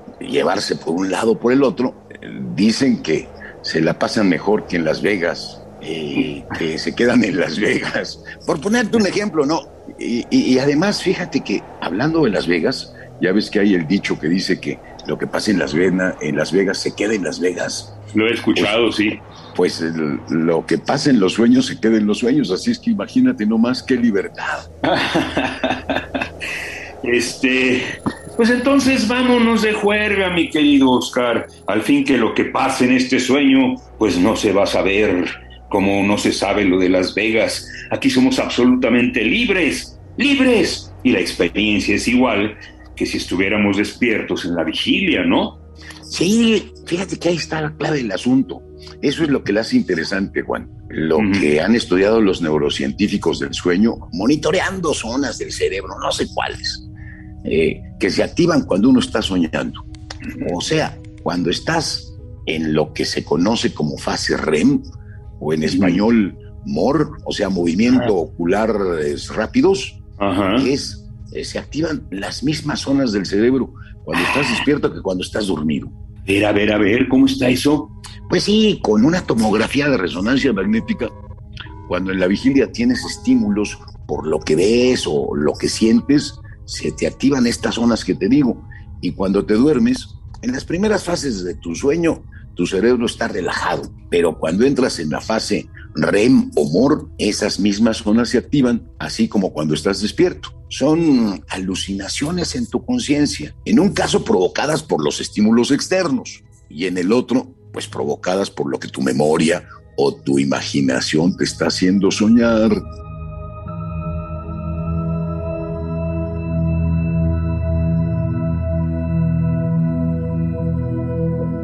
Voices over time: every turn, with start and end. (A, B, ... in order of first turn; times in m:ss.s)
0:00.2-0:17.9 A
0:18.1-0:19.2 B
0:19.5-0:24.7 A
0:24.8-0:26.2 B
0:27.0-0:45.6 B
0:46.1-0:56.9 A
0:51.2-0:51.5 B
0:57.4-0:59.8 A
1:00.4-1:04.8 A
1:05.4-1:10.0 A
1:05.6-1:06.0 B
1:10.2-1:10.7 B
1:10.6-1:15.9 A
1:14.1-1:14.6 B
1:16.2-1:17.9 B
1:18.3-1:21.1 A
1:21.9-1:52.8 A